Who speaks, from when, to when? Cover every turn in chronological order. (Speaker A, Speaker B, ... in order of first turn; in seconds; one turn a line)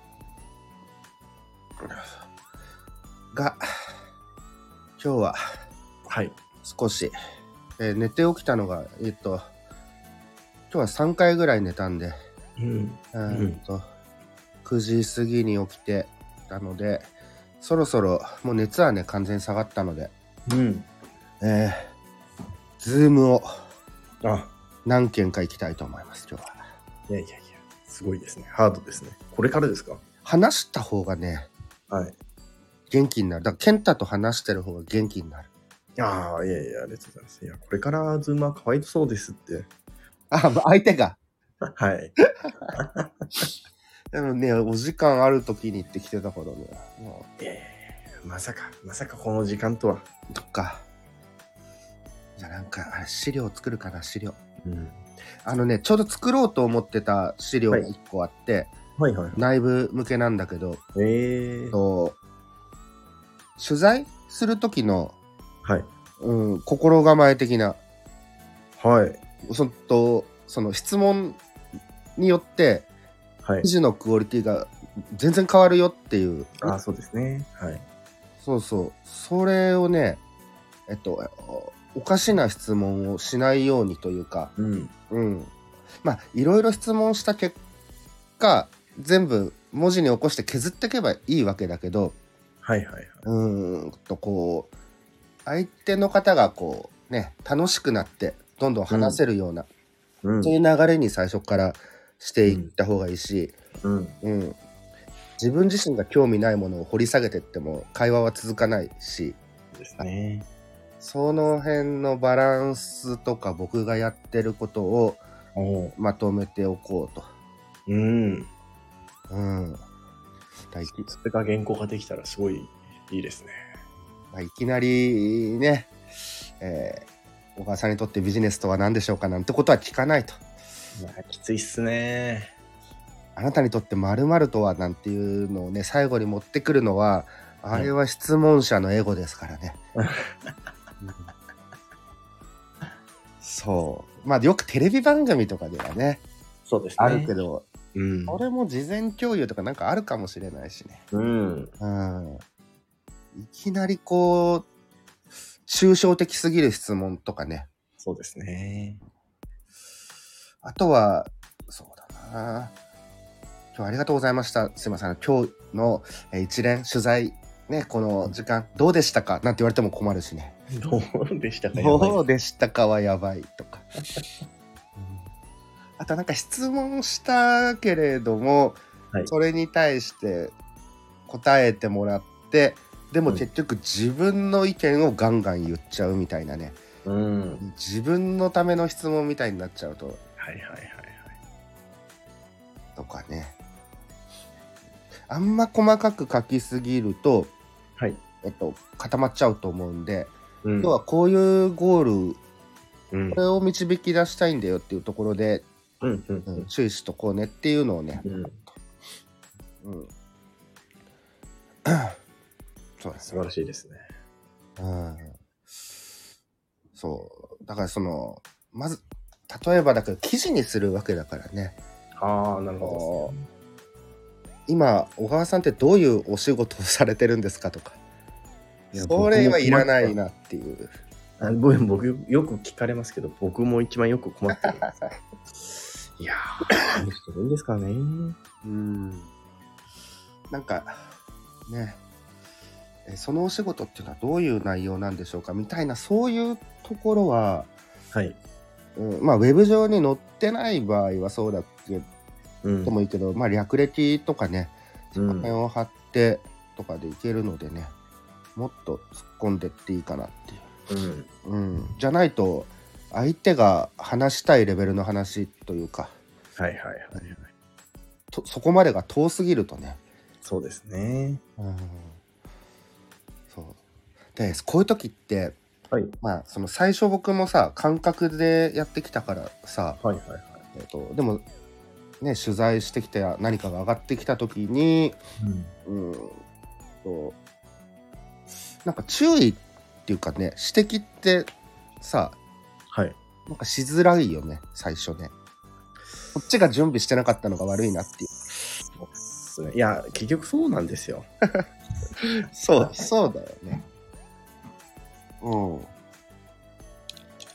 Speaker A: 1.8-2.1
Speaker A: 3.3-3.7
Speaker A: 5.0-5.4
Speaker B: 6.1-6.4
Speaker A: 6.6-7.1
Speaker A: 7.8-9.4
Speaker A: 10.7-12.2
Speaker B: 12.6-13.6
Speaker A: 13.1-13.8
Speaker A: 14.6-20.1
Speaker B: 20.5-20.9
Speaker A: 21.4-21.9
Speaker A: 22.8-23.5
Speaker B: 24.2-24.5
Speaker A: 24.8-26.6
Speaker B: 27.1-30.0
Speaker A: 30.2-31.5
Speaker B: 31.9-32.1
Speaker A: 32.9-35.5
Speaker B: 36.0-39.7
Speaker A: 40.3-41.2
Speaker B: 41.8-42.1
Speaker B: 42.7-43.5
Speaker A: 44.1-47.3
Speaker B: 47.4-50.1
Speaker A: 50.3-50.9
Speaker A: 52.4-54.4
Speaker B: 54.6-55.0
Speaker A: 55.4-58.7
Speaker B: 59.0-59.4
Speaker A: 59.4-60.8
Speaker B: 61.0-61.8
Speaker A: 61.7-62.2
Speaker A: 63.6-65.1
Speaker B: 65.6-65.9
Speaker A: 66.2-67.8
Speaker B: 68.8-69.2
Speaker A: 69.5-71.4
Speaker A: 72.2-72.9
Speaker B: 73.4-73.7
Speaker A: 73.6-76.7
Speaker B: 76.6-77.8
Speaker A: 78.4-80.2
Speaker A: 80.9-84.5
Speaker B: 84.6-84.9
Speaker A: 85.1-85.5
Speaker A: 86.0-87.6
Speaker A: 88.4-92.2
Speaker B: 92.6-93.2
Speaker A: 93.2-94.7
Speaker A: 95.4-99.7
Speaker B: 98.9-99.2
Speaker B: 100.2-100.5
Speaker A: 100.4-103.5
Speaker B: 102.5-102.7
Speaker B: 103.8-104.2
Speaker A: 104.2-104.6
Speaker A: 105.4-109.4
Speaker B: 109.7-110.5
Speaker A: 111.0-115.2
Speaker B: 115.5-115.9
Speaker A: 116.0-117.3
Speaker B: 117.9-118.5
Speaker A: 119.3-119.8
Speaker A: 120.7-121.1
Speaker B: 121.0-123.6
Speaker A: 124.3-125.9
Speaker A: 126.6-130.4
Speaker B: 130.9-132.5
Speaker A: 133.3-139.8
Speaker B: 140.0-140.3
Speaker A: 141.0-141.3
Speaker A: 143.4-146.2
Speaker B: 146.7-147.3
Speaker A: 147.0-147.7
Speaker B: 147.9-148.4
Speaker A: 148.3-151.0
Speaker B: 151.1-151.7
Speaker A: 151.8-152.4
Speaker A: 153.3-154.7
Speaker A: 155.7-157.7
Speaker B: 158.0-159.0
Speaker A: 160.6-162.7
Speaker A: 163.7-170.6
Speaker B: 170.7-172.2
Speaker A: 171.7-173.9
Speaker A: 174.9-175.3
Speaker A: 176.0-180.5
Speaker A: 181.3-186.8
Speaker B: 187.0-187.6
Speaker A: 187.6-190.2
Speaker B: 190.4-191.3
Speaker A: 192.9-193.6
Speaker A: 195.3-197.5
Speaker A: 198.4-202.4
Speaker B: 200.6-200.9
Speaker B: 203.1-203.4
Speaker A: 203.3-205.7
Speaker B: 206.0-206.7
Speaker A: 206.5-208.2
Speaker B: 208.2-208.6
Speaker A: 209.8-210.1
Speaker A: 211.8-212.2
Speaker A: 213.0-213.4
Speaker B: 213.2-214.1
Speaker A: 214.8-215.4
Speaker A: 216.9-221.8
Speaker B: 222.2-223.4
Speaker A: 222.8-223.3
Speaker A: 224.7-228.0
Speaker B: 228.9-230.2
Speaker A: 228.9-230.9
Speaker B: 231.4-234.9
Speaker A: 234.5-235.1
Speaker B: 236.2-238.4
Speaker A: 238.6-239.3
Speaker A: 240.5-241.0
Speaker A: 241.7-242.0
Speaker A: 243.1-247.7
Speaker B: 248.1-248.4
Speaker A: 248.9-252.1
Speaker B: 252.6-252.9
Speaker A: 252.8-257.9
Speaker B: 255.2-255.5
Speaker A: 258.6-260.7
Speaker B: 260.9-261.3
Speaker A: 261.4-266.1
Speaker B: 266.6-267.5
Speaker A: 268.3-270.0
Speaker B: 270.4-271.4
Speaker A: 271.6-272.2
Speaker A: 273.5-273.8
Speaker A: 274.4-275.6
Speaker B: 275.9-276.1
Speaker A: 276.2-280.0
Speaker B: 280.0-280.6
Speaker A: 280.7-281.4
Speaker A: 282.2-285.2
Speaker B: 285.4-285.7
Speaker A: 285.9-286.4
Speaker A: 287.0-287.4
Speaker A: 288.8-291.5
Speaker A: 292.0-292.4
Speaker B: 292.9-293.2
Speaker A: 293.5-295.3
Speaker A: 296.4-298.5
Speaker B: 298.9-301.3
Speaker A: 302.5-303.8
Speaker B: 302.8-303.1
Speaker A: 305.4-305.9